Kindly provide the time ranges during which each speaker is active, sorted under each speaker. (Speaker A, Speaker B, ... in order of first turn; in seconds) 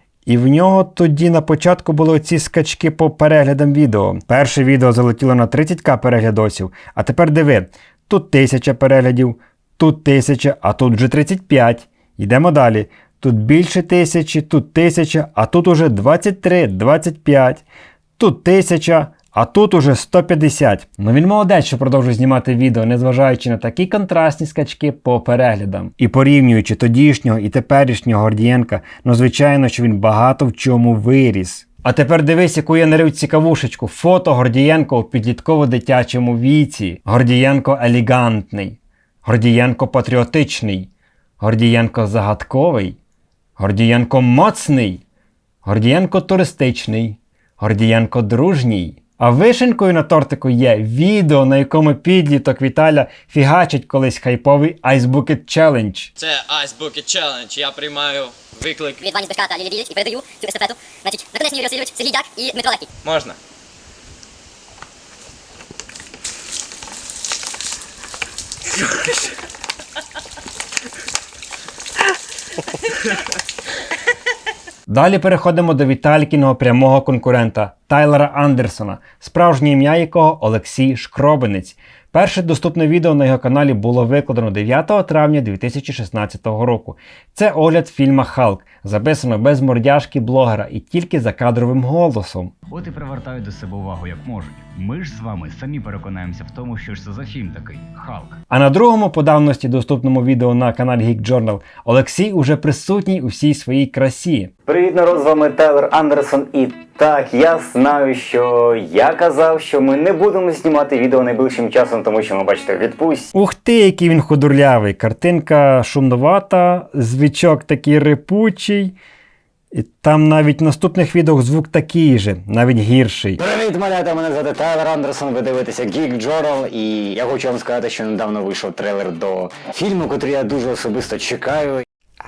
Speaker A: 0.3-17.6, 18.2-40.9, 41.4-43.0, 43.6-45.0, 45.6-56.1, 74.9-92.5, 98.5-104.5, 113.3-119.0, 119.7-123.4
Speaker B: 56.2-59.1, 63.1-63.3
Speaker C: 59.0-62.9
Speaker D: 92.7-98.3
Speaker E: 104.7-113.2, 123.4-131.8